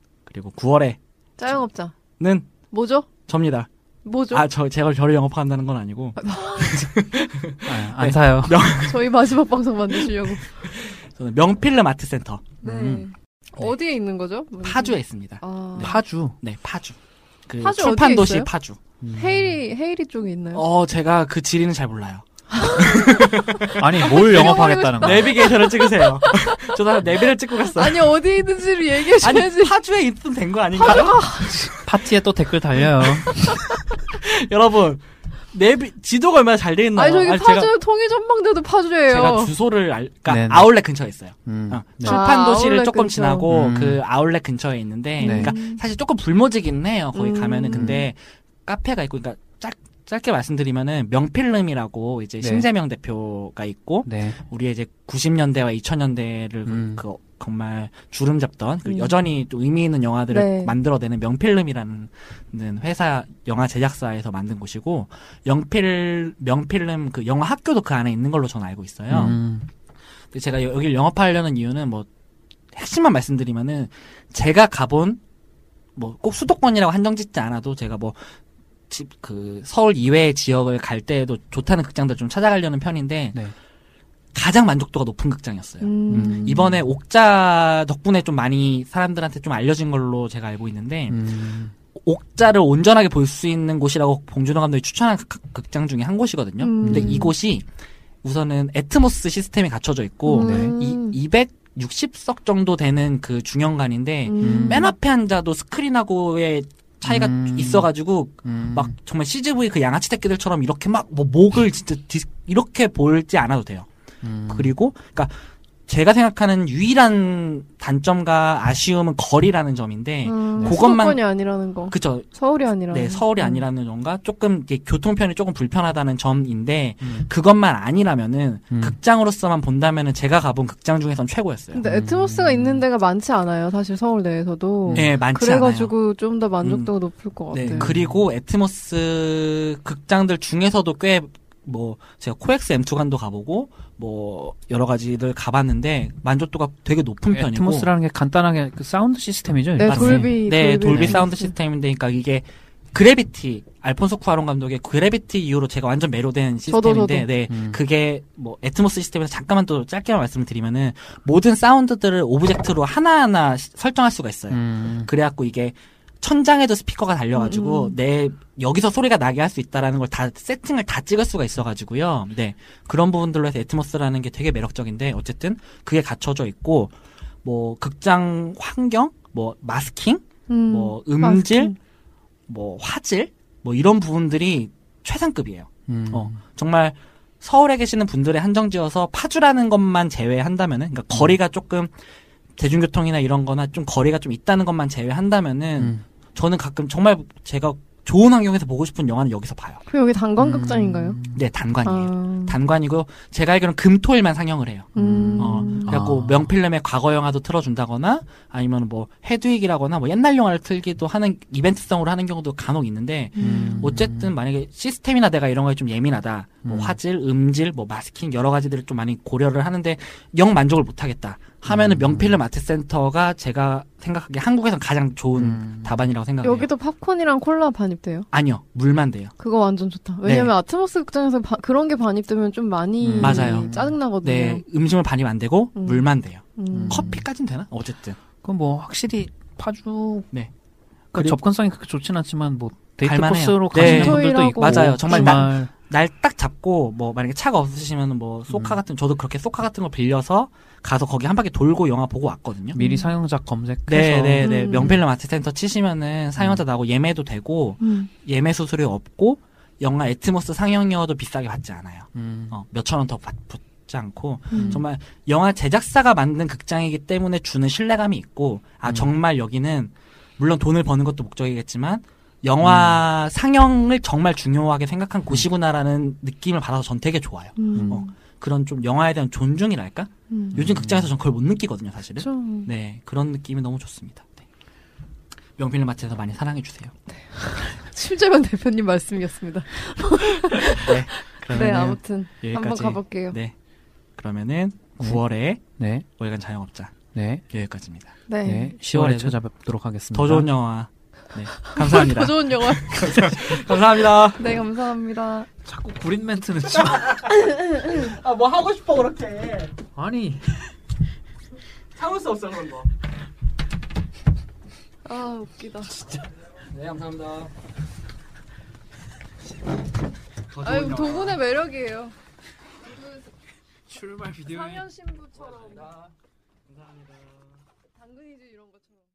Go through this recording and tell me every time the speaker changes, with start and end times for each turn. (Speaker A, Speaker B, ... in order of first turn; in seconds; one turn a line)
Speaker A: 0.3-1.0
Speaker B: 1.4-1.9
Speaker A: 2.2-2.5
Speaker B: 2.7-3.1
Speaker A: 3.3-3.7
Speaker B: 4.0-4.4
Speaker A: 4.3-9.2
Speaker B: 6.2-6.8
Speaker C: 7.6-8.6
Speaker B: 8.8-10.5
Speaker A: 9.9-13.0
Speaker B: 12.6-16.0
Speaker A: 14.6-15.9
Speaker C: 15.8-16.4
Speaker A: 16.4-16.9
Speaker A: 17.5-18.8
Speaker B: 17.6-18.5
Speaker C: 19.0-19.6
Speaker B: 19.1-20.6
Speaker A: 20.5-28.1
Speaker B: 22.5-26.6
Speaker C: 23.8-25.5
Speaker B: 27.6-29.7
Speaker A: 29.1-31.5
Speaker B: 30.8-31.7
Speaker C: 31.6-33.5
Speaker A: 33.3-37.7
Speaker B: 36.9-39.5
Speaker A: 39.1-69.4
Speaker C: 40.3-40.8
Speaker C: 41.5-42.2
Speaker B: 42.0-43.5
Speaker C: 43.5-44.0
Speaker B: 45.2-45.8
Speaker C: 45.2-45.5
Speaker B: 47.1-48.0
Speaker C: 47.7-48.0
Speaker C: 52.4-52.7
Speaker C: 54.0-54.4
Speaker C: 56.6-57.0
Speaker B: 58.9-59.1
Speaker B: 60.3-60.7
Speaker C: 69.1-69.7
Speaker A: 70.3-72.1
Speaker A: 72.7-75.2
Speaker A: 76.0-78.2
Speaker A: 78.9-83.4
Speaker A: 84.3-91.4
Speaker B: 85.8-86.7
Speaker C: 86.1-86.8
Speaker C: 91.1-91.7
Speaker A: 91.9-97.7
Speaker B: 96.6-97.3
Speaker C: 96.8-97.2
Speaker A: 98.2-113.9
Speaker B: 100.3-101.2
Speaker C: 100.4-100.7
Speaker B: 104.2-104.9
Speaker C: 104.4-104.9
Speaker C: 107.0-107.9
Speaker C: 108.4-108.9
Speaker C: 114.2-114.7
Speaker A: 114.5-115.3
Speaker A: 115.9-121.2
Speaker B: 120.2-123.6
Speaker A: 121.9-122.3
Speaker A: 122.9-131.8
Speaker C: 127.0-127.3
Speaker C: 128.7-128.9
Speaker B: 131.7-137.9
Speaker C: 131.8-132.8
Speaker C: 134.8-135.1
Speaker A: 134.9-135.9
Speaker A: 136.6-136.9
Speaker A: 137.5-147.9
Speaker C: 137.7-138.2
Speaker C: 147.3-151.2
Speaker B: 149.8-151.5
Speaker A: 149.9-181.7
Speaker B: 156.7-157.3
Speaker C: 157.5-157.8
Speaker C: 164.5-165.1
Speaker B: 167.3-168.0
Speaker B: 180.5-181.8
Speaker A: 182.5-191.9
Speaker C: 185.9-186.4
Speaker A: 192.6-199.8
Speaker C: 195.8-196.0
Speaker B: 199.9-201.2
Speaker C: 200.4-201.4
Speaker A: 201.3-226.7
Speaker B: 201.8-202.6
Speaker B: 204.9-205.9
Speaker C: 204.9-206.5
Speaker B: 213.3-213.9
Speaker C: 213.4-214.3
Speaker C: 216.6-216.9
Speaker C: 221.7-222.4
Speaker C: 225.3-225.9
Speaker B: 226.4-228.3
Speaker A: 228.3-229.3
Speaker B: 229.4-234.6
Speaker A: 230.2-230.5
Speaker C: 233.0-234.0
Speaker A: 233.2-238.2
Speaker B: 235.7-237.1
Speaker C: 236.7-237.2
Speaker C: 238.4-240.3
Speaker C: 241.1-245.7
Speaker A: 243.0-252.8
Speaker B: 243.7-245.5
Speaker C: 248.5-248.8
Speaker C: 252.7-254.5
Speaker B: 252.8-253.1
Speaker A: 253.9-284.4
Speaker B: 254.4-255.0
Speaker B: 257.8-258.1
Speaker C: 262.1-262.6
Speaker B: 264.5-264.8
Speaker C: 264.5-264.8
Speaker C: 268.8-269.1
Speaker C: 272.6-273.0
Speaker B: 277.6-278.1
Speaker C: 277.7-278.0
Speaker B: 280.3-280.6
Speaker C: 280.5-281.1
Speaker B: 282.2-282.7
Speaker A: 285.6-286.9
Speaker B: 287.2-290.9
Speaker A: 290.6-293.5
Speaker B: 291.4-293.4
Speaker A: 294.2-298.1
Speaker C: 295.8-296.1
Speaker C: 297.1-297.4
Speaker B: 298.3-298.7
Speaker C: 298.4-300.5
Speaker A: 298.8-299.4
Speaker A: 300.1-304.5
Speaker B: 301.7-305.5
Speaker C: 305.6-307.2
Speaker A: 306.8-309.8
Speaker C: 309.9-310.6
Speaker A: 311.9-312.9
Speaker B: 315.0-316.0
Speaker A: 316.0-317.5
Speaker A: 320.5-321.4
Speaker B: 320.6-322.1
Speaker A: 324.0-324.8
Speaker B: 324.4-325.9
Speaker A: 325.6-325.9
Speaker B: 327.9-329.0